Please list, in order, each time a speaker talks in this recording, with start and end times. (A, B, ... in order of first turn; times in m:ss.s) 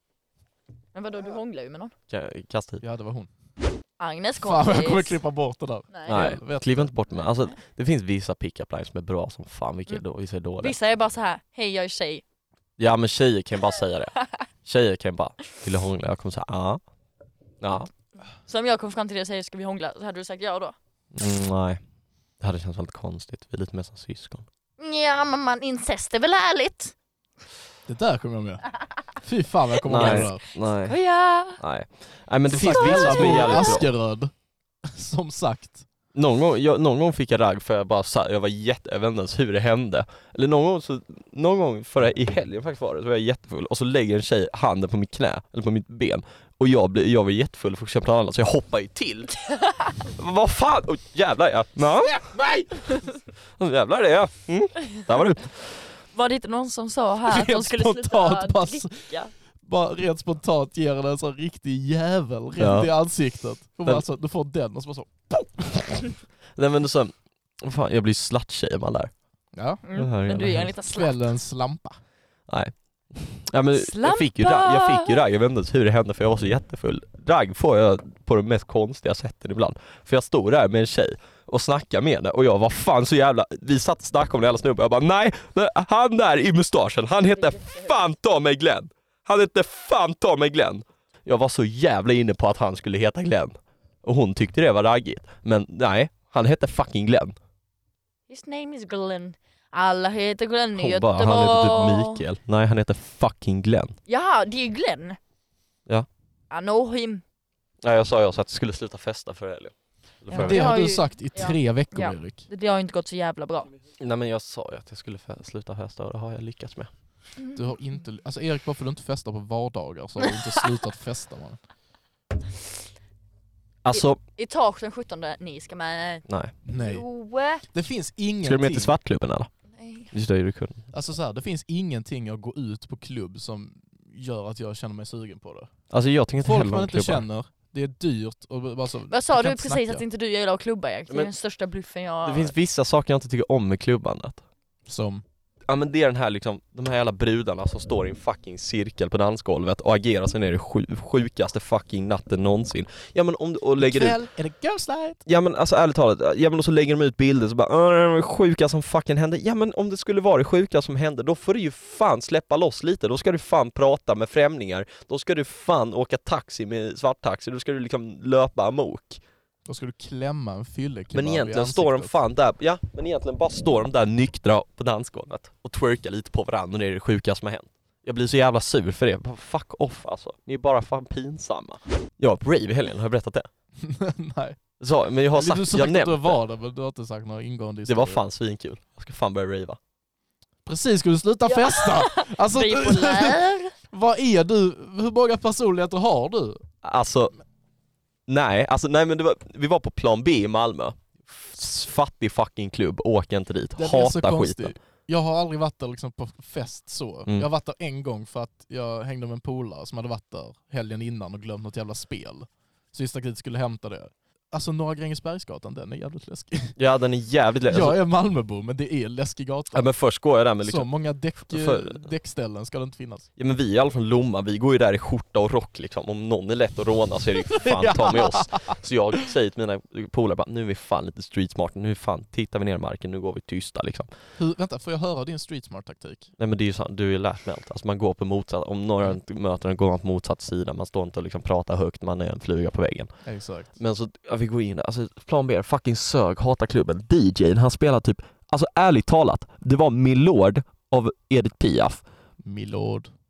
0:00.9-0:01.9 A
0:02.1-0:02.8 B
0:02.8-0:03.3 C
0:04.0-0:05.2 A
0:04.4-0:06.9 C
0:05.9-0:06.4 A
0:06.1-0:10.7 B
0:10.6-0:12.2 A
0:12.8-0:16.8 B
0:17.6-0:17.9 B
0:18.4-0:20.7 A
0:21.1-0:21.8 B
0:22.4-0:24.4 B
0:24.8-0:26.9 A
0:27.9-0:30.4 C
0:29.9-0:31.0 B
0:29.9-0:30.3 A
0:30.9-0:31.6 A
0:31.6-0:33.8 B
0:32.5-0:34.3 C
0:32.6-0:33.8 A
0:34.8-0:35.8 C
0:36.1-0:49.3 B
0:49.4-0:50.0 A
0:50.1-0:52.3 B
0:52.0-0:53.0 C
0:53.6-0:55.7 B
0:56.1-0:59.3 A
0:57.3-0:59.1 C
0:59.6-1:05.8 C
1:02.6-1:02.9 B
1:06.6-1:09.1 B
1:09.6-1:09.8 C
1:09.8-1:11.3 A
1:09.9-1:10.7 B
1:10.3-1:12.0 C
1:12.5-1:37.3 B
1:13.7-1:15.2 A
1:27.3-1:28.0 A
1:38.3-1:42.2 A
1:40.8-1:44.0 B
1:44.1-1:45.2 A
1:46.5-1:47.2 A
1:47.8-1:50.8 B
1:50.3-1:53.7 A
1:50.4-1:52.4 C
1:54.0-1:56.9 B
1:57.5-2:01.6 C
2:03.8-2:04.2 B
2:03.9-2:07.6 A
2:06.3-2:06.5 B
2:06.6-2:07.0 C
2:07.7-2:08.9 C
2:08.4-2:09.5 B
2:09.7-2:10.1 A
2:10.1-2:10.8 B
2:10.9-2:15.7 C
2:15.9-2:17.2 B
2:16.4-2:20.0 C
2:19.1-2:22.5 A
2:22.2-2:24.4 B
2:24.9-2:25.2 C
2:25.7-2:34.2 B
2:33.8-2:35.2 C
2:35.2-2:49.2 B
2:49.7-2:52.1 C
2:51.1-3:03.5 B
3:03.8-3:04.6 C
3:04.8-3:06.4 B
3:05.3-3:08.2 C
3:07.8-3:09.8 B
3:10.6-3:13.4 C
3:11.4-3:13.7 A
3:13.9-3:16.6 C
3:16.8-3:17.3 B
3:18.3-3:24.7 B
3:23.8-3:36.8 C
3:36.8-3:38.0 B
3:37.7-3:39.9 C
3:39.7-3:40.9 B
3:40.6-3:43.3 C
3:41.4-3:42.0 B
3:43.4-3:54.1 B
3:47.5-3:48.8 C
3:54.4-3:56.3 C
3:56.4-4:03.1 B
4:03.2-4:03.7 C
4:03.8-4:12.0 B
4:12.4-4:13.1 C